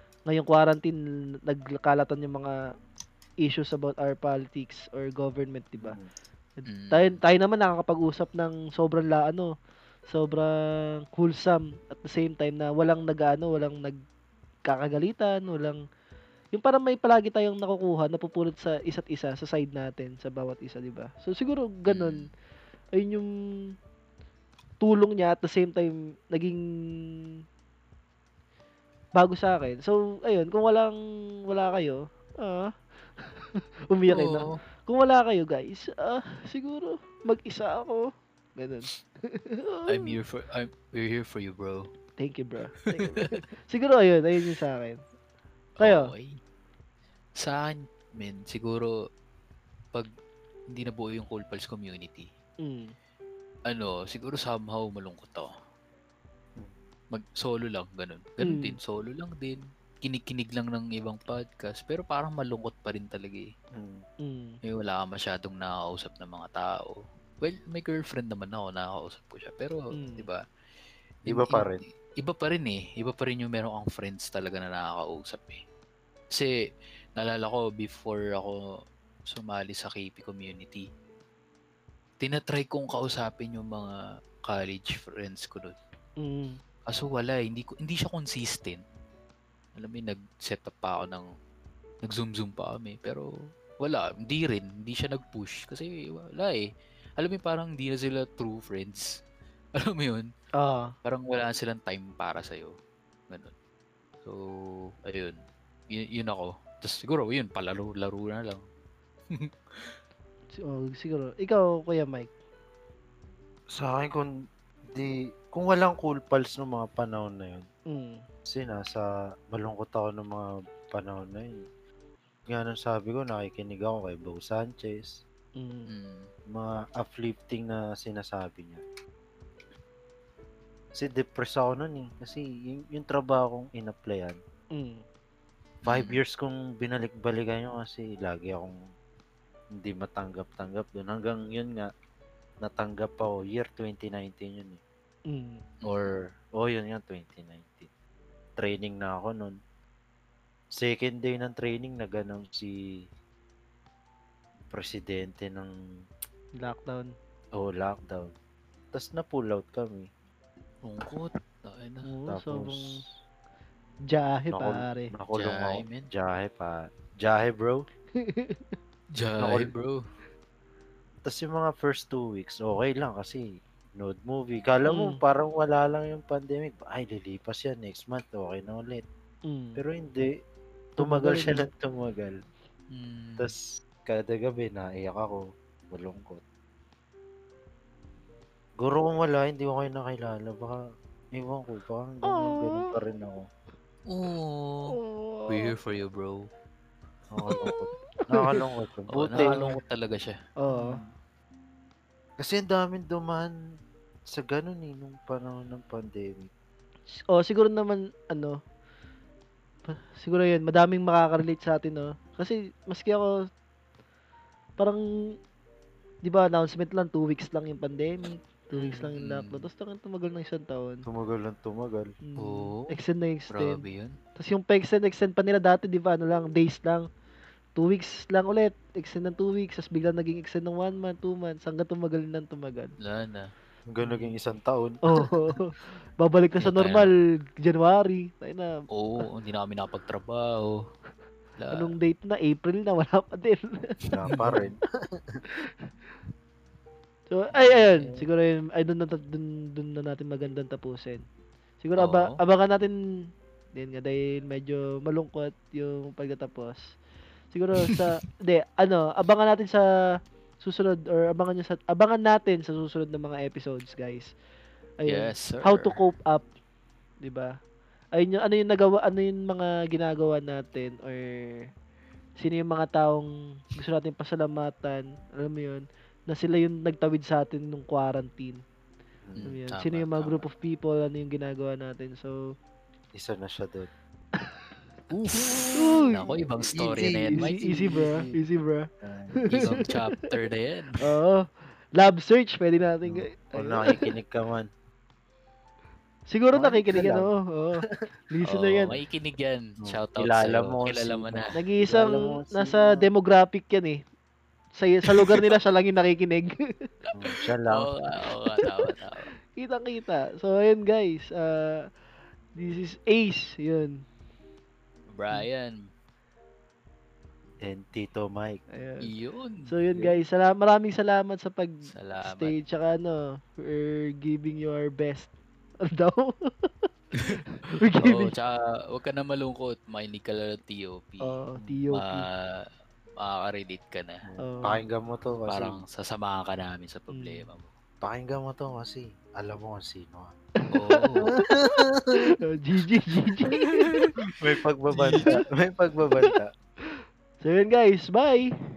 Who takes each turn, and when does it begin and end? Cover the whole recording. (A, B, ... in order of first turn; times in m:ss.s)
0:00.3-0:02.6 A
0:03.4-0:06.0 A
0:05.8-0:06.1 B
0:06.6-0:09.5 A
0:06.7-0:07.2 C
0:10.1-0:14.0 A
0:14.7-0:15.8 A
0:16.5-0:22.2 A
0:21.9-0:22.3 C
0:22.9-0:23.3 A
0:24.8-0:27.0 A
0:29.2-0:31.0 A
0:31.5-0:40.1 A
0:34.1-0:34.5 C
0:39.9-0:41.9 C
0:42.2-0:45.0 A
0:45.8-0:46.4 C
0:45.8-0:46.1 A
0:47.4-0:48.9 C
0:50.7-0:52.3 C
0:52.6-0:52.9 A
0:53.7-0:55.5 C
0:57.1-1:03.5 C
0:58.4-0:58.8 A
1:03.7-1:04.0 B
1:04.2-1:04.6 A
1:04.6-1:10.4 C
1:09.9-1:10.2 A
1:11.2-1:15.6 C
1:11.2-1:11.8 B
1:17.2-1:18.6 C
1:19.3-1:20.9 C
1:22.2-1:25.8 C
1:26.2-1:26.6 A
1:26.9-1:28.8 C
1:29.7-1:31.3 C
1:32.0-1:33.2 C
1:33.8-1:39.1 C
1:39.8-1:40.3 C
1:40.6-1:40.9 A
1:41.0-1:42.7 C
1:44.2-1:45.4 C
1:45.9-1:48.6 C
1:49.3-1:50.0 C
1:50.6-1:52.3 A
1:53.7-1:54.3 B
1:54.9-1:57.7 B
1:57.9-1:58.2 A
1:58.5-2:01.6 B
2:02.5-2:05.2 B
2:05.6-2:05.9 A
2:05.9-2:06.3 C
2:06.5-2:08.8 B
2:10.9-2:14.4 B
2:14.7-2:15.0 A
2:15.8-2:16.2 C
2:15.8-2:18.8 B
2:19.8-2:21.9 B
2:22.6-2:24.8 B
2:25.3-2:25.6 A
2:25.8-2:26.2 C
2:25.8-2:27.9 B
2:28.6-2:29.6 B
2:30.7-2:33.0 B
2:34.7-2:35.7 B
2:36.6-2:37.1 A
2:37.5-2:38.3 B
2:38.9-2:40.1 B
2:40.8-2:42.1 C
2:42.0-2:43.0 A
2:42.3-2:43.1 B
2:44.1-2:45.1 A
2:44.5-2:47.8 B
2:45.3-2:46.1 C
2:48.2-2:48.7 A
2:49.1-2:50.0 C
2:49.4-2:49.7 B
2:51.2-2:59.0 B
2:54.9-2:55.2 A
2:59.5-2:59.8 A
2:59.8-3:00.3 B
3:01.0-3:02.4 B
3:01.0-3:01.6 A
3:02.9-3:03.5 C
3:03.4-3:06.4 B
3:08.8-3:10.8 B
3:11.3-3:13.4 B
3:12.2-3:12.9 A
3:14.1-3:15.0 C
3:14.9-3:15.7 A
3:15.5-3:16.4 C
3:17.3-3:19.8 B
3:18.3-3:18.6 A
3:19.1-3:20.4 C
3:19.4-3:19.7 A
3:20.6-3:21.0 A
3:20.7-3:21.0 B
3:22.4-3:23.5 B
3:24.3-3:26.5 B
3:27.1-3:28.6 A
3:29.9-3:33.3 A
3:36.2-3:41.0 A
3:38.8-3:39.7 C
3:41.0-3:42.1 B
3:42.2-3:43.8 A
3:42.4-3:43.0 C
3:43.5-3:44.2 C
3:44.4-3:47.1 A
3:47.8-3:52.9 A
3:53.0-3:53.5 C
3:53.9-3:55.3 B
3:55.0-3:58.8 A
3:56.6-3:57.1 C
3:58.9-4:00.8 C
4:01.6-4:01.9 C
4:01.7-4:04.0 A
4:04.1-4:05.4 B
4:04.2-4:04.6 C
4:07.3-4:11.2 A
4:07.6-4:08.1 C
4:11.8-4:12.9 A
4:12.0-4:12.4 C
4:13.8-4:16.9 A
4:17.5-4:24.3 A
4:25.0-4:26.4 A
4:25.1-4:25.9 C
4:27.2-4:27.5 A
4:28.1-4:31.7 A
4:32.4-4:38.6 A
4:39.2-4:39.5 B
4:39.4-4:40.4 C
4:39.4-4:42.5 A
4:43.2-4:43.9 B
4:45.1-4:47.6 C
4:45.8-4:46.4 A
4:46.6-4:48.4 B
4:47.0-4:50.2 A
4:49.0-4:49.7 B
4:49.5-4:51.0 C
4:51.0-4:54.1 A
4:53.0-4:54.7 B
4:56.3-4:58.9 A
4:56.5-4:57.3 B
4:58.4-5:01.6 C
4:59.8-5:03.1 B
5:01.6-5:04.0 A
5:04.8-5:06.9 A
5:07.1-5:07.9 B
5:07.7-5:09.3 C
5:08.6-5:08.9 A
5:09.5-5:11.9 A
5:12.6-5:14.0 A
5:15.1-5:15.9 C
5:17.6-5:18.6 B
5:18.7-5:19.1 A
5:19.0-5:19.7 C
5:19.7-5:25.3 A
5:21.9-5:22.5 C
5:25.8-5:28.3 A
5:27.2-5:31.4 C
5:31.2-5:32.2 A
5:31.9-5:32.7 C
5:33.2-5:34.2 C
5:34.2-5:35.8 B
5:34.4-5:34.8 A
5:35.5-5:37.7 C
5:37.1-5:37.4 A
5:38.0-5:40.3 B
5:40.6-5:43.9 A
5:40.7-5:41.3 C
5:41.3-5:42.2 B
5:43.5-5:44.3 C
5:44.3-5:46.5 B
5:44.9-5:45.3 C
5:45.2-5:45.4 A
5:47.4-5:48.5 A